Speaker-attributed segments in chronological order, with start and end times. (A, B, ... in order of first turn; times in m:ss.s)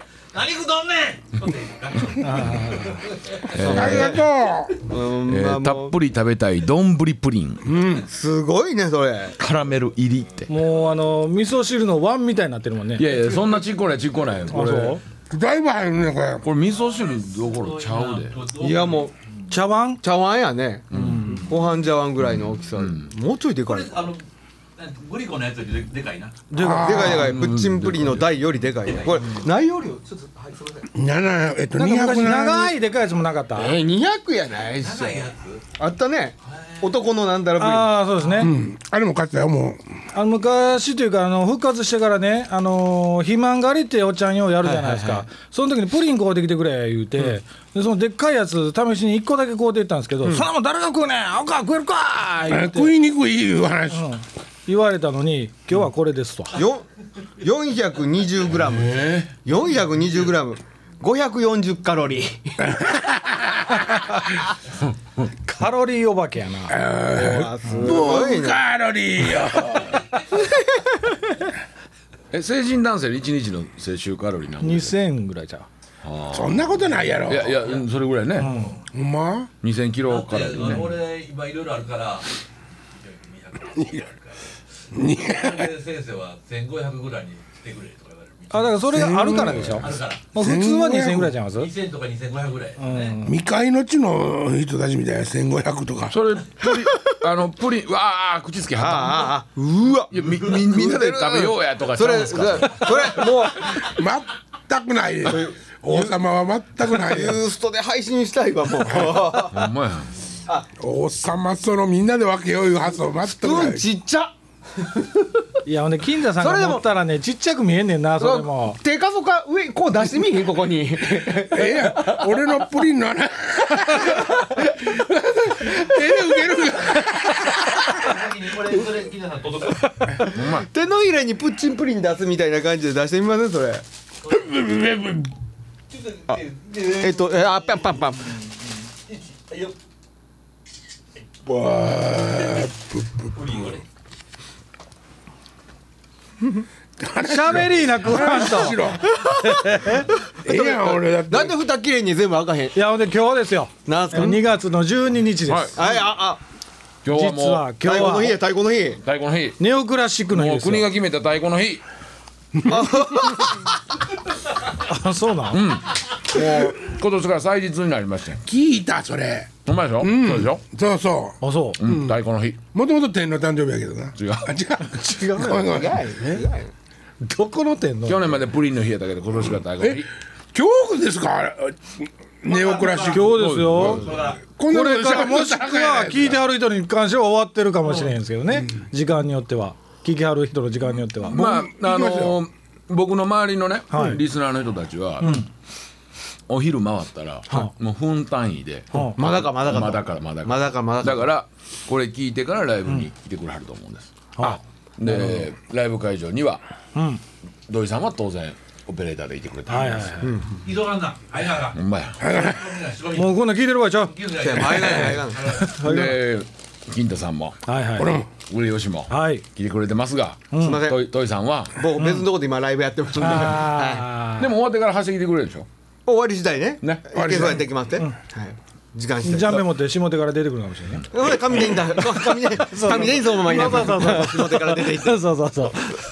0:00.3-0:03.8 A
0:02.2-0:03.1 B
0:03.5-0:04.2 C
0:03.5-0:04.2 D
0:03.6-0:04.8 E
0:04.8-0:06.0 D
0:05.3-0:07.7 C
0:07.6-0:08.1 E
0:08.0-0:09.4 D
0:09.4-0:10.5 C
0:10.5-0:13.1 B
0:13.0-0:15.0 C
0:14.5-0:15.0 B
0:15.3-0:16.4 E
0:16.4-0:18.5 C
0:16.7-0:19.1 A
0:18.6-0:19.1 D
0:19.5-0:20.0 B
0:20.0-0:24.1 D
0:20.9-0:21.5 C
0:22.2-0:23.1 C
0:23.6-0:26.5 A
0:26.5-0:27.1 B
0:26.6-0:27.3 E
0:26.6-0:30.9 D
0:26.9-0:28.7 C
0:28.9-0:29.5 A
0:30.9-0:32.8 E
0:31.8-0:33.8 B
0:33.5-0:38.0 D
0:34.7-0:35.6 A
0:36.5-0:37.1 A
0:37.6-0:38.5 B
0:38.2-0:38.5 A
0:38.4-0:39.8 E
0:40.1-0:52.9 B
0:44.6-0:45.2 D
0:52.5-0:54.1 E
0:53.9-0:56.6 B
0:56.5-0:56.9 D
0:57.4-1:02.9 D
0:58.6-0:59.3 C
1:02.7-1:03.8 E
1:05.4-1:06.8 B
1:06.7-1:10.0 E
1:07.1-1:08.6 D
1:10.0-1:10.2 A
1:10.3-1:11.2 D
1:12.3-1:15.0 C
1:14.6-1:15.7 B
1:16.0-1:18.6 C
1:16.3-1:17.7 E
1:18.4-1:18.8 B
1:18.9-1:19.5 E
1:19.6-1:21.0 C
1:20.0-1:22.3 A
1:22.9-1:24.4 A
1:24.9-1:25.7 E
1:25.0-1:28.8 A
1:28.5-1:31.7 B
1:28.9-1:31.4 E
1:29.6-1:30.3 A
1:31.5-1:33.2 A
1:32.8-1:33.3 B
1:33.2-1:36.2 E
1:36.1-1:39.4 C
1:38.8-1:43.8 D
1:40.1-1:43.3 C
1:40.2-1:40.6 A
1:43.6-1:47.4 E
1:45.2-1:46.2 D
1:46.8-1:49.7 D
1:48.9-1:49.2 E
1:49.5-1:50.1 C
1:50.8-1:53.8 E
1:53.2-1:55.4 D
1:55.6-1:58.8 B
1:56.4-1:56.8 D
1:58.2-2:02.5 D
2:01.5-2:08.3 E
2:04.0-2:04.7 D
2:05.7-2:06.1 D
2:07.9-2:10.2 A
2:10.0-2:13.8 D
2:10.2-2:10.7 C
2:14.3-2:15.3 E
2:15.9-2:17.5 A
2:16.3-2:18.4 D
2:19.4-2:19.7 A
2:21.4-2:23.5 E
2:23.4-2:23.8 A
2:27.0-2:29.2 E
2:27.2-2:30.1 B
2:29.1-2:32.8 D
2:30.4-2:31.6 E
2:32.8-2:35.8 B
2:33.9-2:34.5 D
2:35.5-2:35.8 C
2:35.8-2:36.4 D
2:37.0-2:37.7 C
2:37.1-2:38.4 B
2:37.8-2:39.0 D
2:39.0-2:39.6 C
2:39.6-2:40.9 B
2:40.3-2:41.8 C
2:42.6-2:43.4 E
2:42.7-2:43.7 D
2:44.7-2:45.6 B
2:45.5-2:48.4 C
2:48.4-2:52.2 E
2:49.6-2:50.6 C
2:51.4-2:51.8 B
2:51.8-2:52.6 C
2:52.7-2:56.4 E
2:54.2-2:54.5 C
2:55.1-2:55.6 B
2:55.5-2:56.7 D
2:57.2-2:58.2 B
2:58.1-3:00.1 C
2:59.8-3:06.4 E
3:02.5-3:03.4 A
3:03.0-3:04.1 B
3:03.3-3:04.0 C
3:04.0-3:04.4 A
3:04.7-3:11.4 B
3:11.2-3:15.5 C
3:11.3-3:12.4 E
3:13.9-3:14.2 B
3:15.2-3:15.5 B
3:16.5-3:26.6 C
3:19.0-3:21.3 D
3:24.4-3:25.5 B
3:27.0-3:27.2 B
3:27.7-3:30.3 C
3:29.7-3:30.4 B
3:30.2-3:30.6 D
3:30.6-3:33.4 A
3:31.7-3:32.3 C
3:32.2-3:32.7 E
3:33.1-3:36.2 B
3:34.0-3:35.8 A
3:34.4-3:35.5 D
3:35.7-3:37.6 C
3:37.7-3:38.2 B
3:38.0-3:38.3 E
3:38.4-3:41.8 C
3:39.1-3:39.4 B
3:40.5-3:40.9 B
3:40.6-3:41.1 D
3:41.8-3:44.1 D
3:42.0-3:42.3 B
3:43.2-3:44.5 B
3:44.4-3:45.7 C
3:46.1-3:49.6 D
3:47.1-3:47.7 E
3:49.2-3:51.1 B
3:51.1-3:55.2 D
3:52.0-3:55.8 B